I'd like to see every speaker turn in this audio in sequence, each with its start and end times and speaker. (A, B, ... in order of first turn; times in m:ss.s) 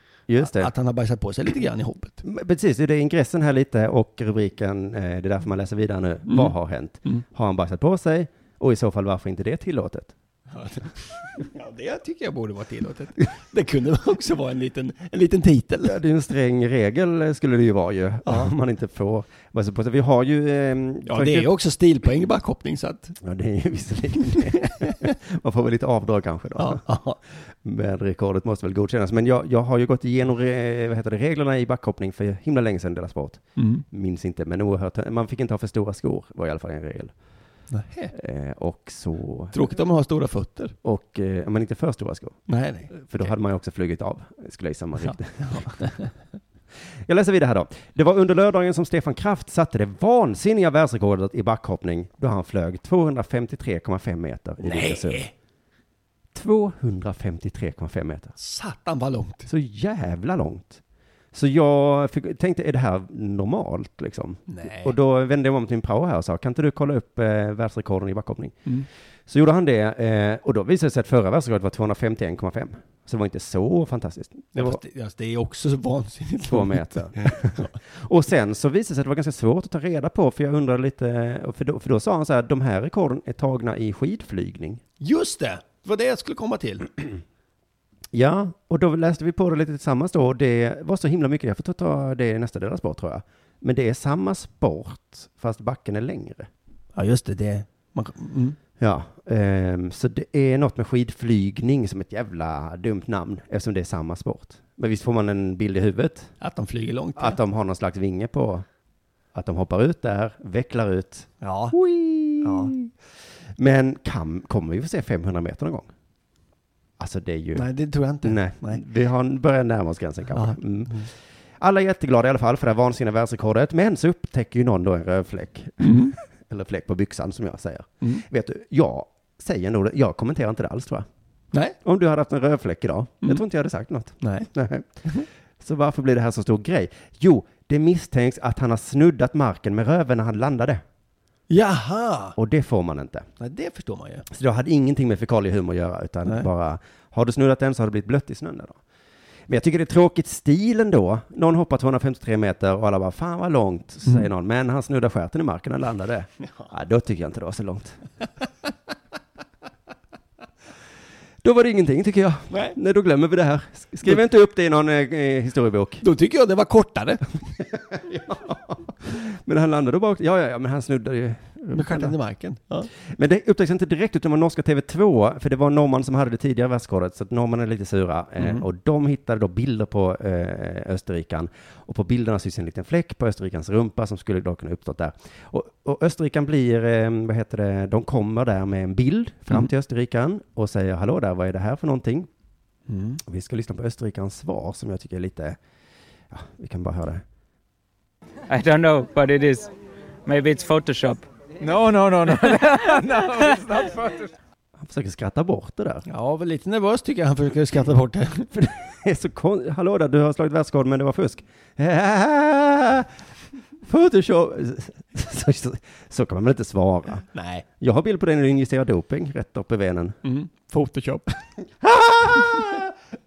0:00.3-0:00.7 A
0:00.4-0:02.2 B
0:02.2-0:10.1 A
0:06.3-0:06.5 B
0:10.5-0:15.9 B
0:15.8-0:21.5 A
0:18.2-0:18.5 B
0:21.1-0:23.2 B
0:23.2-0:26.8 A
0:26.6-0:27.2 B
0:27.6-0:37.1 A
0:33.6-0:33.8 B
0:37.7-0:38.1 B
0:38.1-0:39.6 A
0:39.5-0:40.7 B
0:40.8-0:45.8 A
0:42.5-0:43.2 B
0:45.1-0:46.0 B
0:47.1-0:55.2 A
0:54.6-0:55.3 B
0:56.3-0:58.4 A
0:58.4-0:59.5 B
0:59.5-1:00.8 A
1:01.3-1:08.6 A
1:04.5-1:04.9 B
1:09.3-1:14.8 A
1:14.5-1:17.7 B
1:16.5-1:24.8 A
1:25.0-1:27.0 B
1:28.1-1:36.5 A
1:36.9-1:38.6 B
1:38.8-1:46.3 A
1:46.4-1:47.4 B
1:47.2-1:48.6 A
1:49.3-1:52.9 A
1:51.4-1:51.8 B
1:52.4-1:52.7 B
1:53.6-1:55.9 A
1:57.0-1:57.6 A
1:57.5-1:58.8 B
1:58.2-2:11.0 A
2:00.3-2:01.1 B
2:05.8-2:06.1 B
2:11.8-2:14.9 A
2:14.2-2:14.5 B
2:15.6-2:20.8 A
2:21.5-2:22.4 B
2:22.4-2:23.3 A
2:23.4-2:24.2 B
2:24.3-2:28.8 A
2:29.5-2:38.0 A
2:41.4-2:46.0 A
2:42.5-2:42.8 B
2:46.0-2:47.4 B
2:48.0-2:52.1 A
2:51.7-2:52.9 B
2:53.1-3:12.3 A
2:58.4-2:58.6 B
3:12.9-3:13.2 B
3:13.2-3:15.6 A
3:16.3-3:17.2 A
3:18.5-3:19.7 C
3:20.2-3:24.3 C
3:24.8-3:26.0 A
3:26.1-3:28.5 B
3:28.5-3:33.1 A
3:33.8-3:37.2 A
3:37.3-3:37.6 B
3:37.8-3:40.2 A
3:40.2-3:41.4 B
3:41.8-3:42.9 A